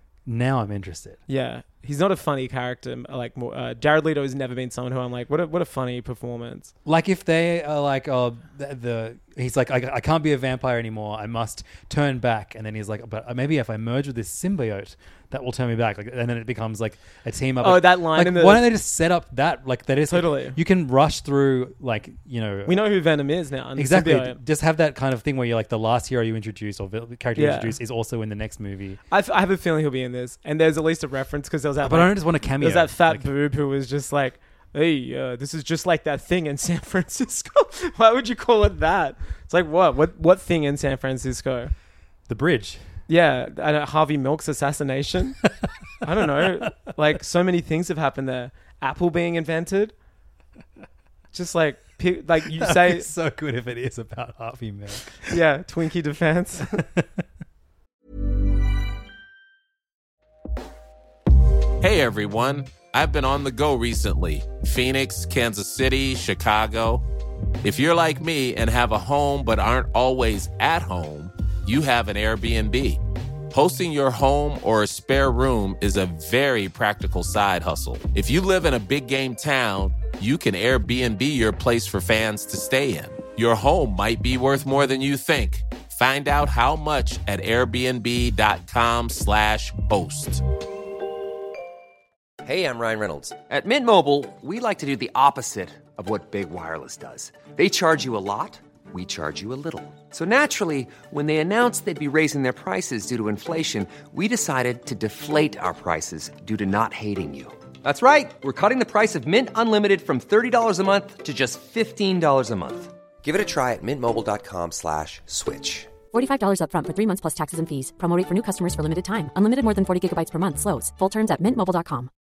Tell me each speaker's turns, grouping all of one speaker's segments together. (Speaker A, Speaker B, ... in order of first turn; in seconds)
Speaker A: 0.2-1.2, 6.8-22.8, 23.7-29.0, 31.8-33.3, 42.3-42.9, 46.4-46.6, 52.5-55.4, 56.8-57.2
Speaker B: 1.3-6.7, 17.6-18.7, 20.1-20.6, 22.6-24.4, 27.4-27.8, 29.1-41.7, 43.1-45.4, 46.0-49.9, 51.3-53.1, 55.3-56.9
Speaker C: 61.8-67.0, 67.6-90.4
Speaker D: 92.4-115.9
Speaker E: 116.1-122.1